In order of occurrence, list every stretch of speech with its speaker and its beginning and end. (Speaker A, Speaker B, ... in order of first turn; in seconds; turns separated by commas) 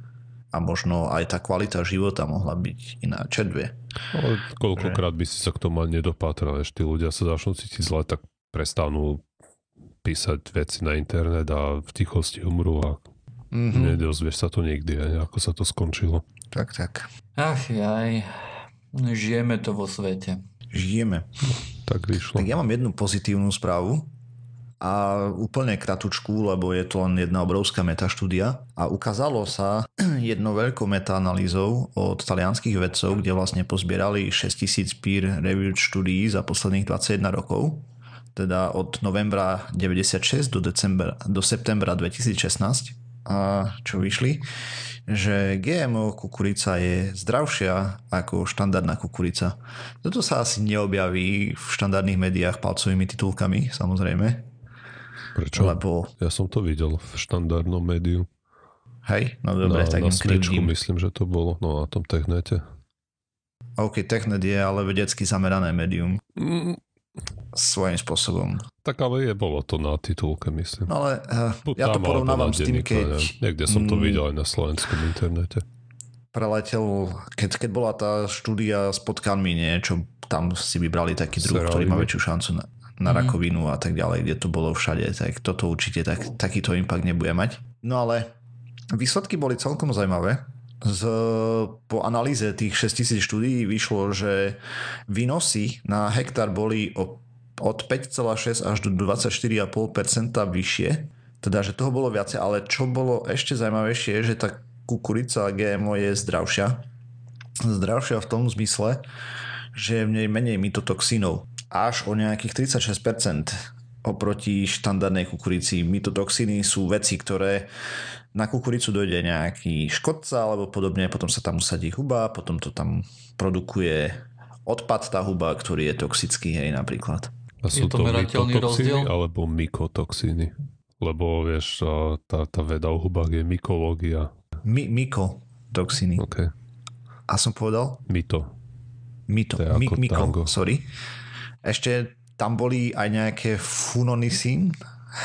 Speaker A: 0.5-3.8, Speaker B: 4.1-9.2, Speaker B: 10.0-13.0, Speaker A: 13.5-14.0, Speaker B: 13.7-16.2, Speaker A: 16.5-17.1, Speaker C: 17.4-18.4, Speaker C: 18.9-20.4, Speaker A: 20.7-21.3, Speaker B: 21.6-22.5, Speaker A: 22.4-24.1, Speaker A: 24.8-44.5, Speaker A: 45.1-54.5, Speaker B: 55.4-58.3, Speaker A: 55.5-56.1, Speaker A: 59.0-60.7, Speaker B: 59.6-62.6, Speaker A: 63.8-66.2, Speaker B: 66.4-66.8, Speaker A: 67.5-68.7, Speaker B: 68.8-70.9, Speaker A: 70.9-74.2, Speaker B: 71.7-75.7, Speaker A: 76.3-88.3, Speaker B: 81.4-82.1, Speaker C: 83.1-83.4, Speaker A: 88.9-106.9, Speaker A: 107.6-109.0, Speaker A: 109.7-117.7, Speaker A: 118.3-127.3, Speaker B: 127.6-134.3, Speaker C: 127.7-129.1, Speaker A: 134.7-136.3, Speaker B: 136.2-136.5, Speaker A: 137.3-138.0, Speaker B: 138.1-138.5, Speaker A: 139.3-140.9, Speaker B: 139.6-140.5, Speaker A: 141.6-144.8